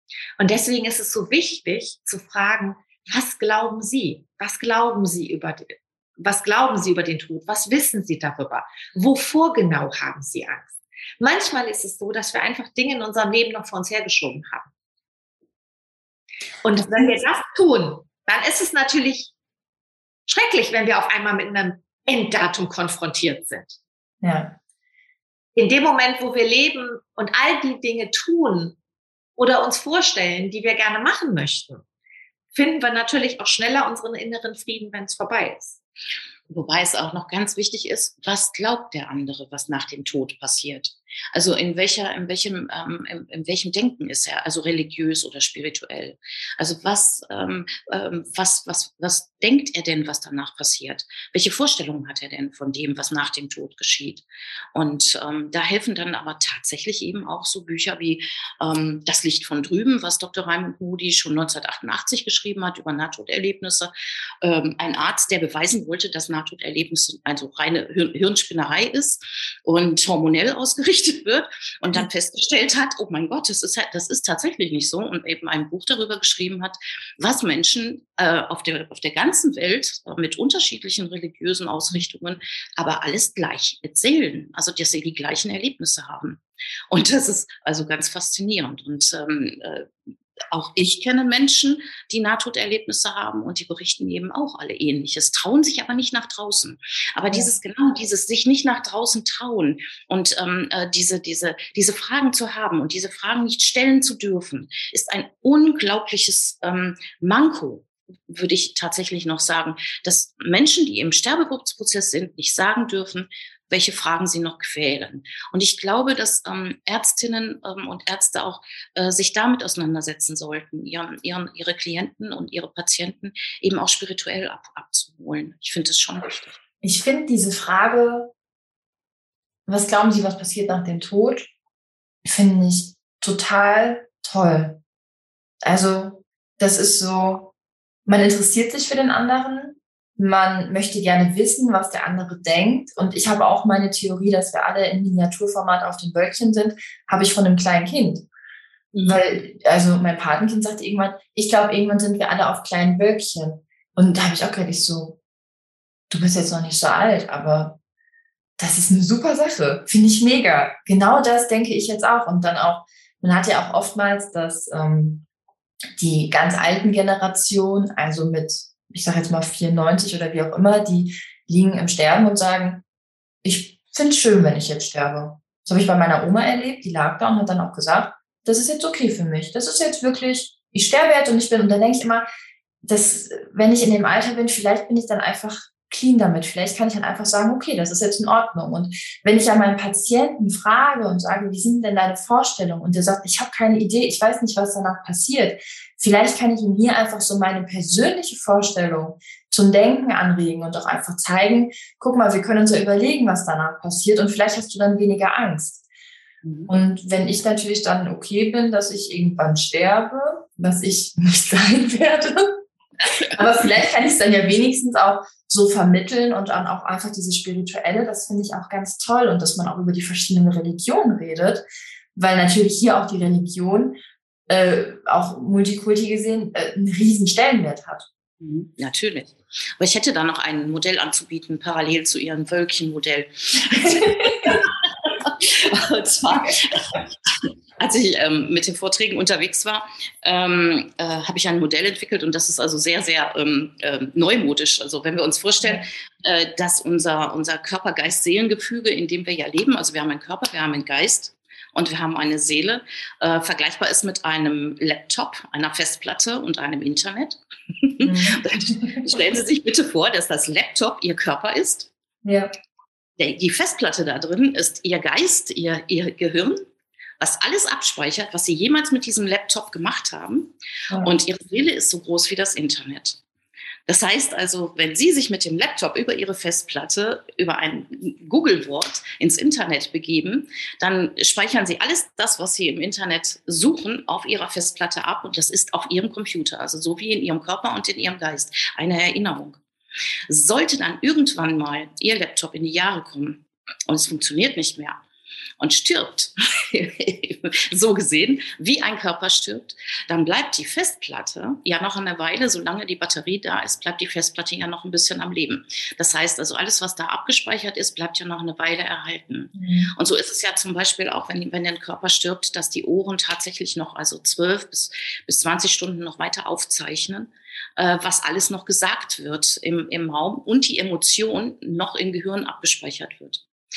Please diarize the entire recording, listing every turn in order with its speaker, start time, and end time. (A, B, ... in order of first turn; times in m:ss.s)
0:00.4-0:14.7 A
0:16.6-0:19.3 A
0:16.9-0:17.2 B
0:20.3-0:23.8 A
0:24.2-0:24.6 B
0:25.6-0:28.8 A
0:29.4-0:31.8 A
0:32.5-0:35.8 A
0:36.5-1:29.9 C
1:30.5-2:06.6 C
2:06.8-2:08.3 B
2:09.7-2:11.5 B
2:12.2-2:14.8 B
2:15.6-2:17.5 B
2:18.1-2:28.3 B
2:28.9-2:29.2 C
2:29.0-2:35.2 B
2:36.1-2:37.8 B
2:38.6-2:45.2 B
2:46.0-2:52.8 B
2:53.4-3:02.3 B
3:02.8-3:25.8 B
3:26.4-3:26.7 C
3:26.7-3:48.1 B
3:48.4-4:21.9 C
3:53.8-3:54.6 B
4:18.0-4:19.0 B
4:22.2-4:22.5 B
4:23.2-4:26.7 C
4:27.2-4:33.2 C
4:33.9-4:49.6 C
4:50.3-4:55.0 C
4:55.6-5:23.4 C
5:09.6-5:09.9 B